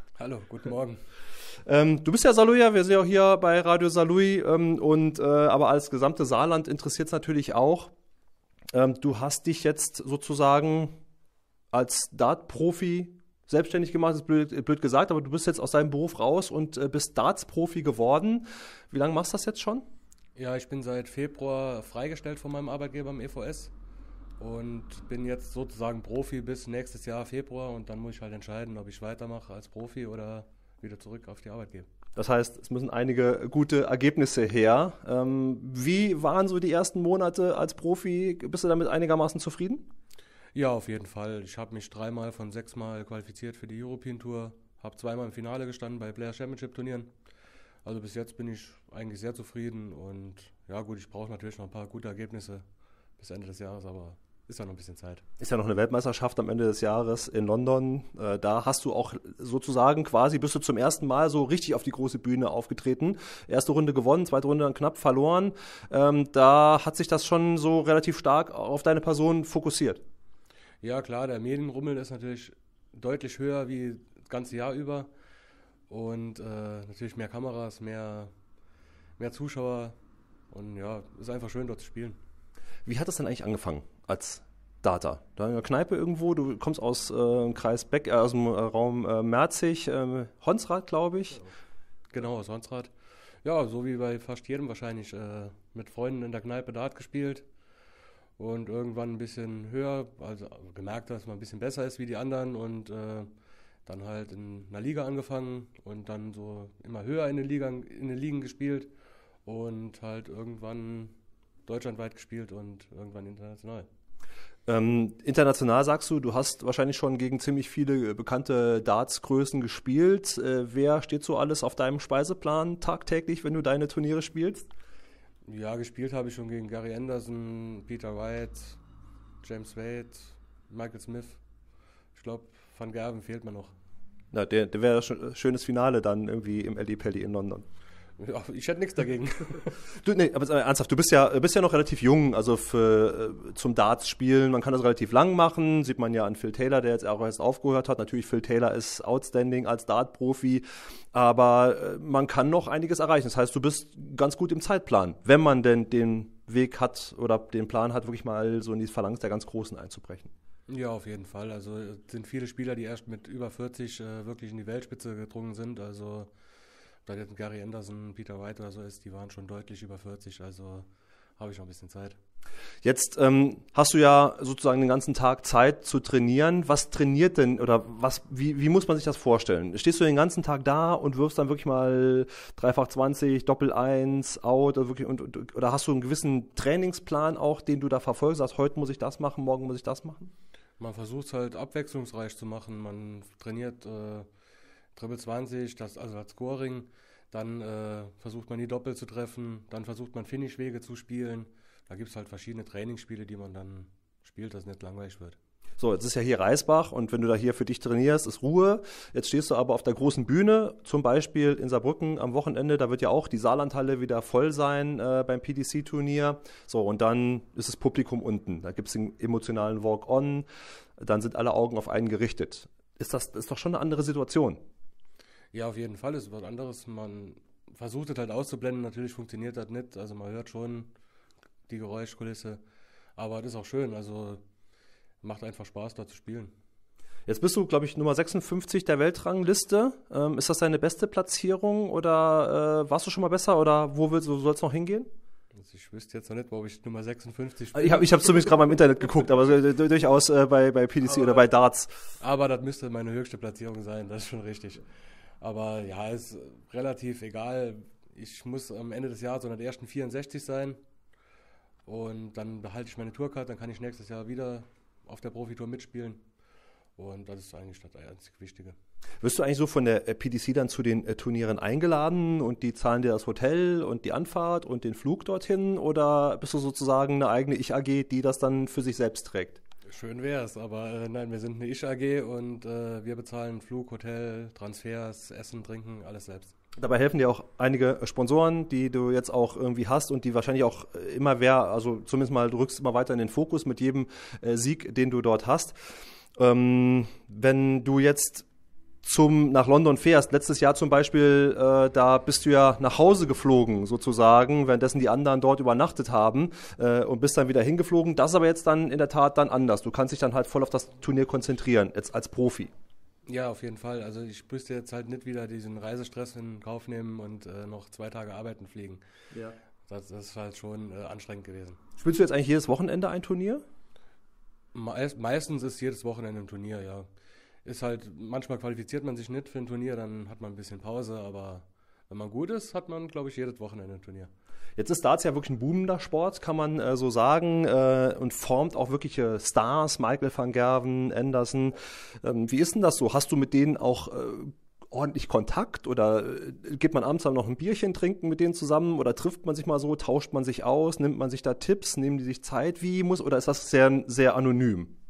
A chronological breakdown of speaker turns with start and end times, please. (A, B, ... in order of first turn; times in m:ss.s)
0:00.2-0:01.0 A
0:01.6-0:07.9 B
0:08.7-0:10.9 B
0:11.7-0:19.8 B
0:20.4-0:23.7 A
0:24.4-0:31.9 A
0:32.2-0:39.9 B
0:40.5-0:47.1 A
0:47.8-0:52.6 A
0:53.2-0:55.2 A
0:55.4-1:10.0 B
1:10.8-1:15.1 A
1:15.9-1:18.3 A
1:19.2-1:20.0 A
1:20.5-1:22.2 A
1:22.8-1:31.4 B
1:32.1-1:32.9 A
1:33.4-1:37.4 A
1:38.4-1:43.3 A
1:43.8-1:48.9 A
1:49.4-1:51.1 A
1:51.6-1:53.9 A
1:54.7-2:04.7 B
2:05.5-2:08.8 A
2:09.4-2:11.4 A
2:12.1-2:13.7 A
2:14.3-2:17.6 B
2:18.2-2:19.8 A
2:19.9-2:40.3 B
2:40.7-2:46.3 A
2:47.0-2:50.9 A
2:51.4-2:52.2 A
2:52.8-3:10.3 B
3:10.8-3:14.3 A
3:15.0-3:25.4 A
3:25.8-3:40.4 B
3:41.0-3:44.6 B
3:45.5-3:50.9 A
3:51.7-3:52.6 A
3:53.2-3:54.4 A
3:55.2-3:56.5 A
3:57.3-4:05.1 B
4:05.5-4:08.7 A
4:07.7-4:12.1 B
4:11.2-4:11.4 A
4:12.2-4:14.8 A
4:15.4-4:20.8 A
4:21.8-4:26.2 A
4:27.0-4:28.8 A
4:29.2-4:39.6 B
4:39.9-4:46.5 A
4:46.8-4:55.7 B
4:56.4-4:58.4 B
4:59.0-5:12.7 B
5:13.3-5:19.0 A
5:19.3-5:19.6 B
5:19.9-5:21.8 A
5:22.0-5:23.6 B
5:24.7-5:27.1 A
5:27.6-5:34.3 A
5:34.8-5:54.9 B